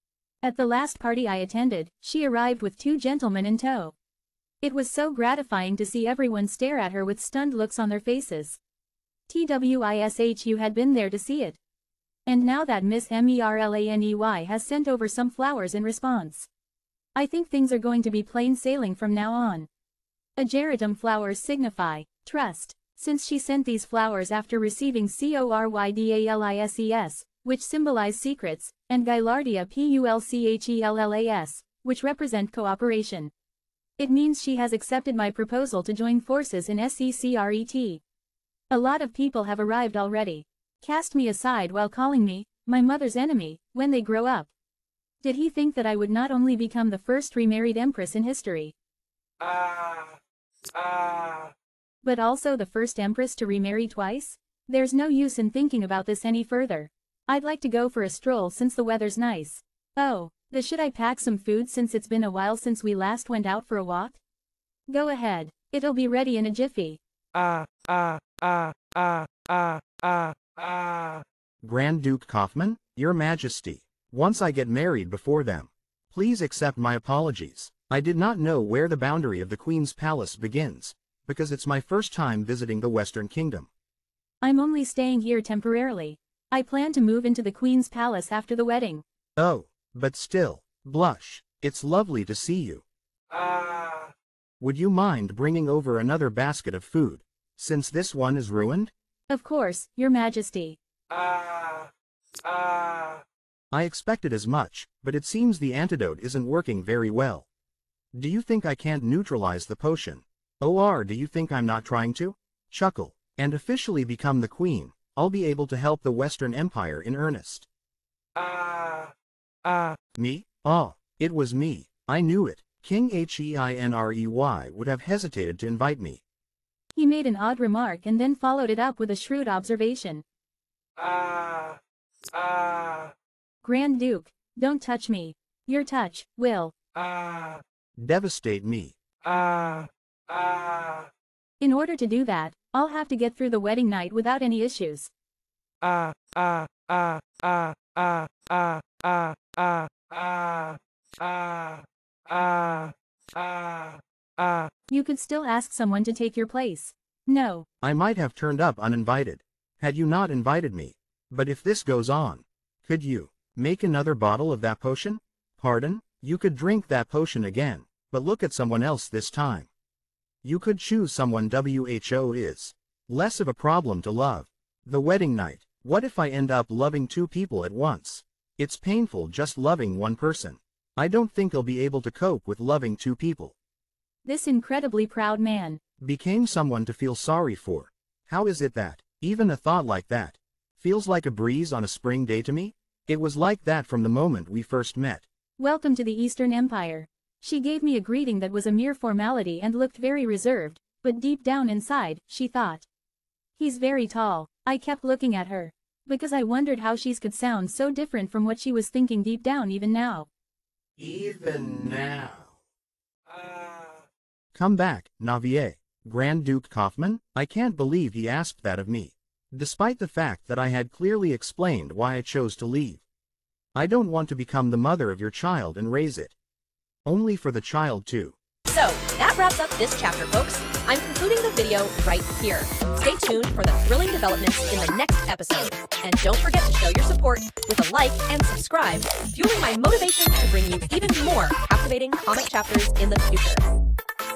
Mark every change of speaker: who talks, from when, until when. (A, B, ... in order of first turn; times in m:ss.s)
0:00.4-0:03.9 A
0:04.6-0:08.6 A
0:09.3-0:11.6 A
0:12.3-0:16.5 A
0:17.2-0:19.7 A
0:20.4-0:33.3 A
0:34.0-0:38.0 A
0:38.7-0:44.5 A
0:45.2-0:48.7 A
0:49.4-0:50.2 B
0:50.7-0:51.5 B
0:52.0-1:04.2 A
1:04.9-1:07.0 A
1:07.3-1:11.2 B
1:11.6-1:23.7 C
1:24.4-1:29.0 A
1:29.4-1:32.8 C
1:33.3-1:34.1 B
1:34.6-1:38.9 C
1:39.3-1:40.8 A
1:41.1-1:41.9 B
1:42.4-1:43.2 B
1:43.7-1:47.5 C
1:48.1-1:57.7 C
1:58.4-1:59.1 B
1:59.6-2:00.0 B
2:00.2-2:06.2 C
2:07.0-2:10.2 A
2:11.0-2:13.1 B
2:13.6-2:16.7 A
2:16.9-2:17.6 B
2:18.0-2:18.9 C
2:19.2-2:21.1 B
2:21.6-2:25.1 A
2:25.8-2:34.7 B
2:34.9-2:37.7 A
2:37.8-2:49.7 C
2:50.4-3:03.6 C
3:04.2-3:05.8 A
3:06.0-3:15.2 C
3:15.6-3:22.9 A
3:23.6-3:30.3 A
3:31.0-3:32.6 C
3:33.3-3:34.1 B
3:34.6-3:43.0 C
3:43.8-3:46.3 C
3:47.0-3:48.4 C
3:48.7-4:03.7 D